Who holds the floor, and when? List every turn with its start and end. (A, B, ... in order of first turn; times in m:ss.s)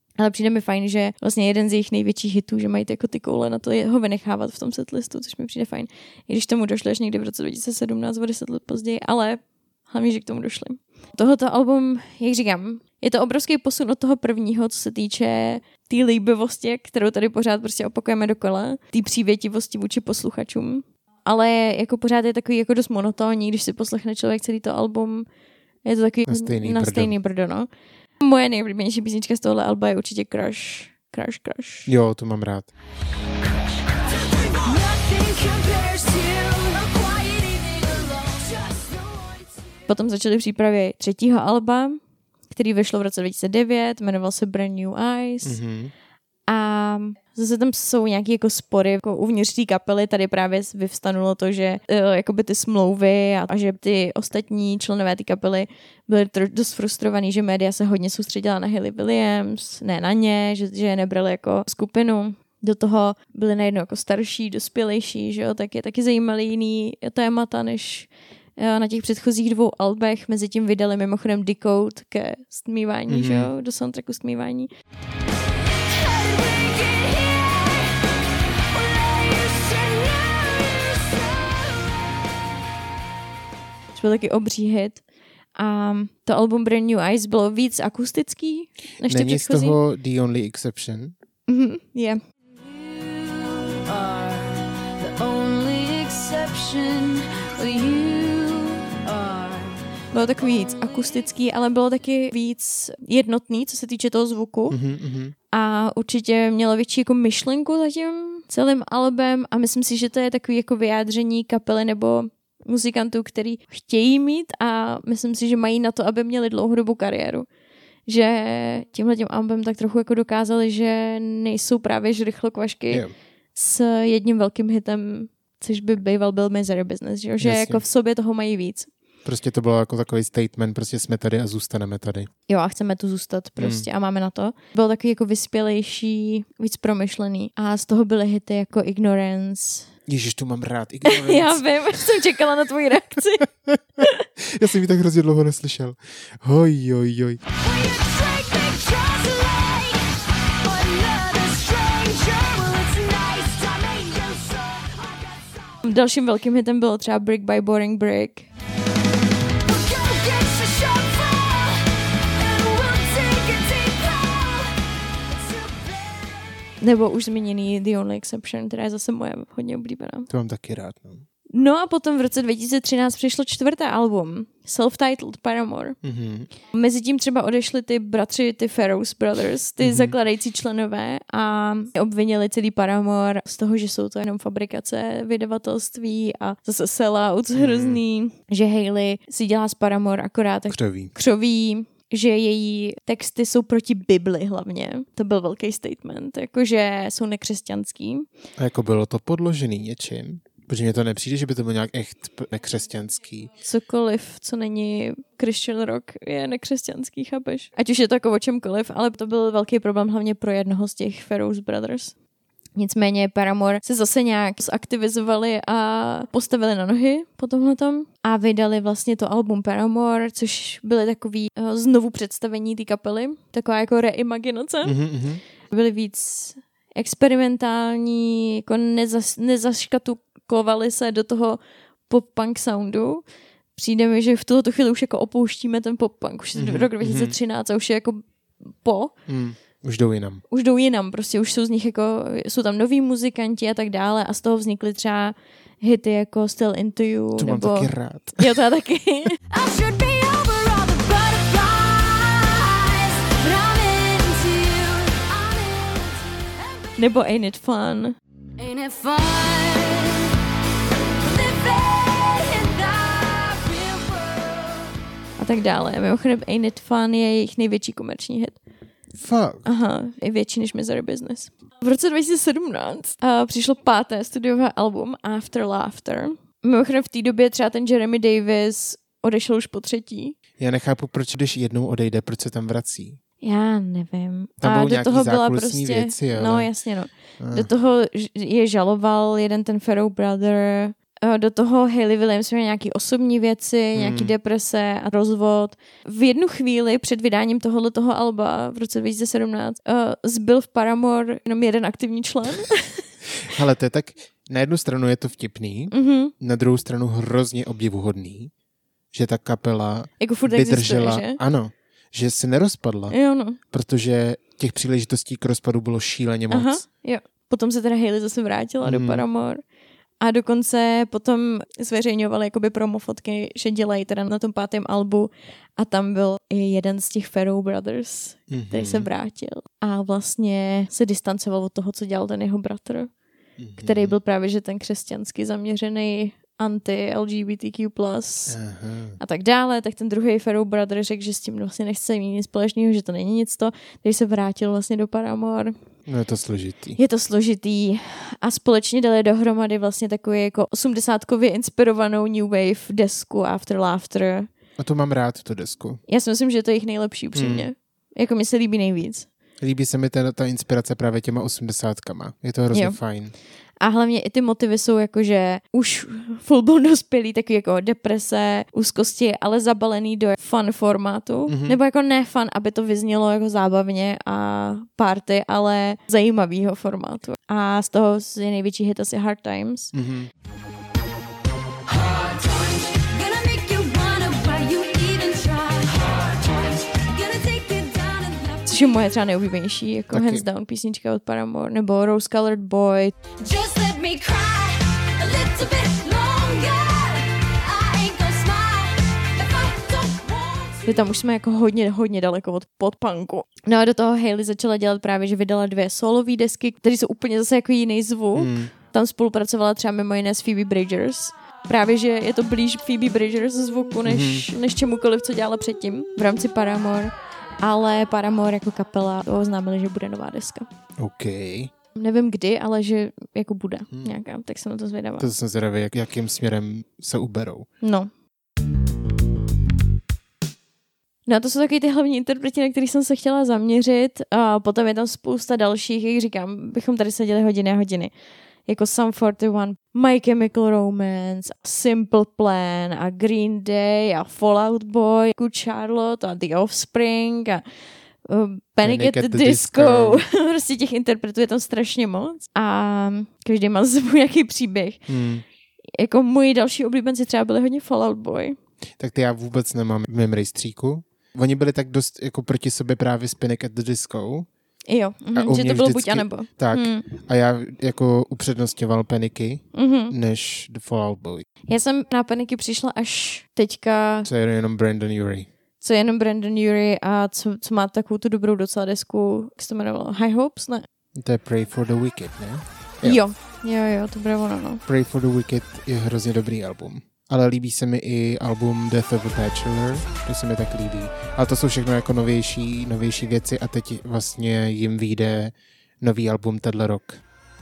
0:00.2-0:25.2 A
0:25.8-0:27.7 A
0:26.2-0:27.1 B
0:28.2-0:31.9 A
0:31.8-0:32.7 B
0:34.1-0:39.7 C
0:39.9-0:45.6 A
0:45.4-0:45.9 B
0:46.5-1:14.7 A
1:13.1-1:13.5 B
1:15.7-1:18.0 C
1:18.7-1:22.0 C
1:23.9-1:25.0 A
1:25.6-1:29.8 A
1:29.0-1:31.1 B
1:31.5-1:32.2 A
1:32.5-1:40.0 C
1:40.1-1:44.8 A
1:44.7-1:45.3 B
1:45.5-1:57.5 A
1:58.1-2:03.0 A
2:03.5-2:08.9 A
2:07.4-2:07.8 B
2:09.2-2:12.3 B
2:12.5-2:19.9 A
2:13.6-2:13.8 B
2:20.1-2:21.6 B
2:21.0-2:23.5 A
2:23.6-2:27.4 B
2:27.6-2:35.8 C
2:35.8-2:38.5 A
2:39.6-2:46.4 C
2:46.8-2:50.3 A
2:50.3-2:51.2 B
2:51.5-2:56.0 A
2:56.0-2:56.5 B
2:56.7-3:18.2 A
2:59.8-3:00.1 B
3:07.5-3:08.0 B
3:10.7-3:11.1 B
3:18.6-3:23.5 B
3:23.6-3:32.1 A
3:32.7-3:45.0 A
3:44.8-3:45.4 B
3:45.7-3:58.2 A
3:56.5-3:57.4 B
3:58.8-3:59.1 A
3:59.3-4:00.4 B
4:00.5-4:09.4 A
4:07.4-4:08.4 B
4:09.5-4:17.0 C
4:17.0-4:18.2 A
4:18.6-4:20.3 C
4:21.2-4:24.9 C
4:25.4-4:28.6 A
4:29.1-4:29.6 B
4:29.6-4:40.4 A
4:40.6-4:43.2 B
4:43.4-5:03.1 A
4:44.6-4:46.7 B
4:47.4-4:47.7 B
4:54.0-4:54.3 B
5:03.4-5:08.5 B
5:05.9-5:06.3 A
5:09.1-5:16.8 B
5:10.2-5:11.4 A
5:13.1-5:13.6 A
5:16.5-5:19.6 A
5:18.8-5:19.2 B
5:20.2-5:33.1 A
5:28.5-5:29.1 B
5:33.6-5:34.1 B
5:33.8-5:38.6 A
5:38.5-5:39.2 B
5:39.2-5:45.7 A
5:46.0-5:47.0 B
5:47.0-5:54.5 A
5:54.8-5:56.0 B
5:56.1-5:59.3 A
5:57.3-5:57.7 B
5:59.6-6:03.3 B
6:02.7-6:03.0 A
6:03.8-6:19.9 A
6:11.5-6:11.8 B
6:19.9-6:20.3 B
6:21.9-6:29.1 C
6:28.7-6:33.1 A
6:30.1-6:30.4 B
6:33.4-6:41.1 C
6:40.8-7:00.7 A
6:48.4-6:48.7 B
6:54.0-6:54.5 B
7:01.0-7:01.7 B
7:01.9-7:05.3 A
7:05.2-7:07.7 B
7:07.8-7:08.1 A
7:11.3-7:18.1 A
7:18.7-7:27.6 A
7:28.2-7:35.1 A
7:28.8-7:30.2 B
7:35.1-7:35.4 B
7:36.0-7:38.6 A
7:39.0-7:44.5 B
7:44.9-7:47.1 A
7:45.3-7:51.4 B
7:49.7-7:50.1 A
7:51.7-7:54.3 A
7:54.2-7:55.5 B
7:55.8-8:00.8 A
8:01.2-8:03.2 B
8:03.0-8:04.8 A
8:04.8-8:17.2 B